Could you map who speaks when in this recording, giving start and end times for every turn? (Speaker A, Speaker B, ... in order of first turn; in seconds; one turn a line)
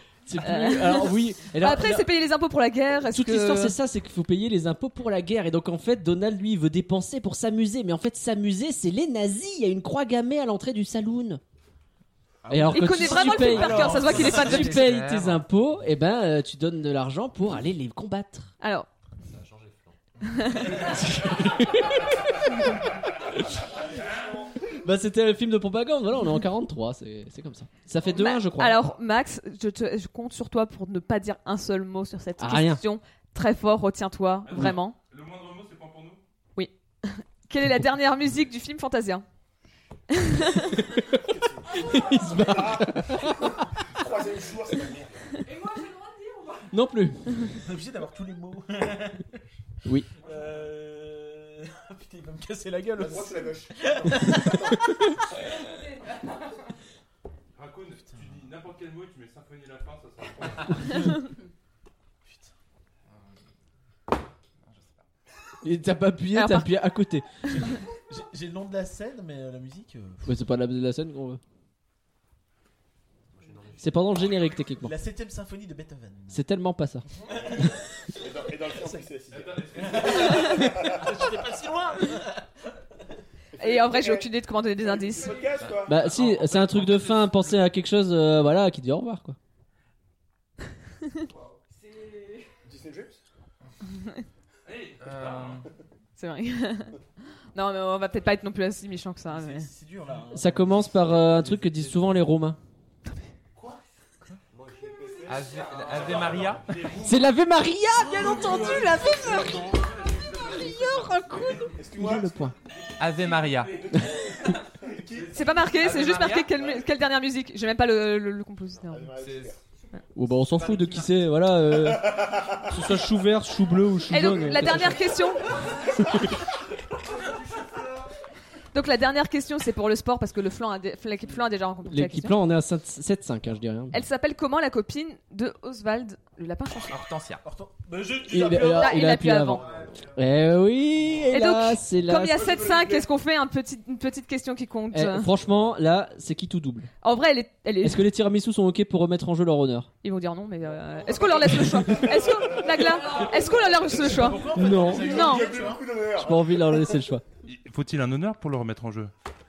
Speaker A: 0.3-2.1
Speaker B: 0.4-3.8
Speaker A: 3.1-11.4
Speaker C: 12.4-14.2
Speaker A: 12.5-18.5
Speaker B: 12.6-14.9
Speaker D: 13.9-15.4
Speaker B: 18.6-18.9
Speaker E: 19.2-20.5
Speaker B: 20.2-20.9
Speaker A: 20.6-22.7
Speaker A: 23.4-23.6
Speaker F: 23.9-24.3
Speaker A: 24.8-28.9
Speaker B: 28.0-35.0
Speaker A: 32.4-32.8
Speaker F: 34.4-36.2
Speaker B: 36.5-39.2
Speaker B: 40.1-40.7
Speaker G: 41.1-45.2
Speaker A: 41.8-43.5
Speaker H: 45.4-46.7
Speaker A: 46.7-47.5
Speaker C: 47.6-49.3
Speaker C: 50.2-55.0
Speaker F: 50.2-50.7
Speaker G: 52.9-55.2
Speaker H: 55.4-56.6
Speaker F: 57.5-61.2
Speaker C: 62.2-62.5
Speaker D: 63.1-63.4
Speaker D: 64.6-65.0
Speaker A: 65.6-67.5
Speaker B: 66.3-66.8
Speaker C: 67.5-70.3
Speaker A: 70.2-71.4
Speaker E: 73.3-74.6
Speaker A: 73.8-75.0
Speaker C: 74.7-76.4
Speaker A: 76.3-77.0
Speaker G: 77.1-81.3
Speaker C: 77.3-77.7
Speaker F: 79.3-80.6
Speaker C: 79.8-82.4
Speaker G: 83.5-86.0
Speaker B: 83.6-85.4
Speaker D: 85.5-87.6
Speaker A: 85.8-89.4
Speaker F: 86.2-87.5
Speaker H: 91.7-92.5
Speaker G: 92.6-93.2
Speaker F: 94.6-95.7
Speaker D: 95.0-95.7
Speaker B: 96.2-97.0
Speaker B: 97.5-99.7
Speaker C: 99.2-102.2
Speaker A: 100.3-102.6
Speaker E: 104.5-106.8
Speaker F: 105.0-107.3
Speaker D: 105.2-106.8
Speaker G: 106.0-106.4
Speaker A: 107.0-109.8
Speaker F: 107.9-111.8
Speaker C: 108.0-109.8
Speaker D: 108.2-108.9
Speaker A: 110.4-112.5
Speaker G: 111.7-112.5
Speaker F: 112.7-116.1
Speaker D: 113.0-113.9
Speaker C: 113.7-114.4
Speaker G: 114.8-115.5
Speaker B: 115.3-119.1
Speaker D: 115.7-116.7
Speaker G: 118.8-119.6
Speaker D: 119.1-119.6
Speaker A: 120.1-125.2
Speaker D: 120.2-121.2
Speaker G: 121.6-123.0
Speaker B: 124.1-125.5
Speaker B: 128.7-132.4
Speaker A: 131.9-134.0
Speaker B: 133.9-137.0
Speaker D: 136.9-137.4
Speaker C: 137.4-140.1
Speaker A: 138.2-142.6
Speaker B: 138.7-139.6
Speaker G: 139.6-140.1
Speaker B: 141.3-145.3
Speaker G: 142.2-143.1
Speaker A: 144.9-146.9
Speaker B: 147.0-148.0
Speaker A: 147.8-149.9
Speaker B: 150.0-155.5
Speaker G: 151.0-157.0
Speaker H: 152.6-153.6
Speaker C: 153.7-155.9
Speaker A: 154.5-155.5
Speaker A: 156.1-157.2
Speaker F: 157.4-159.1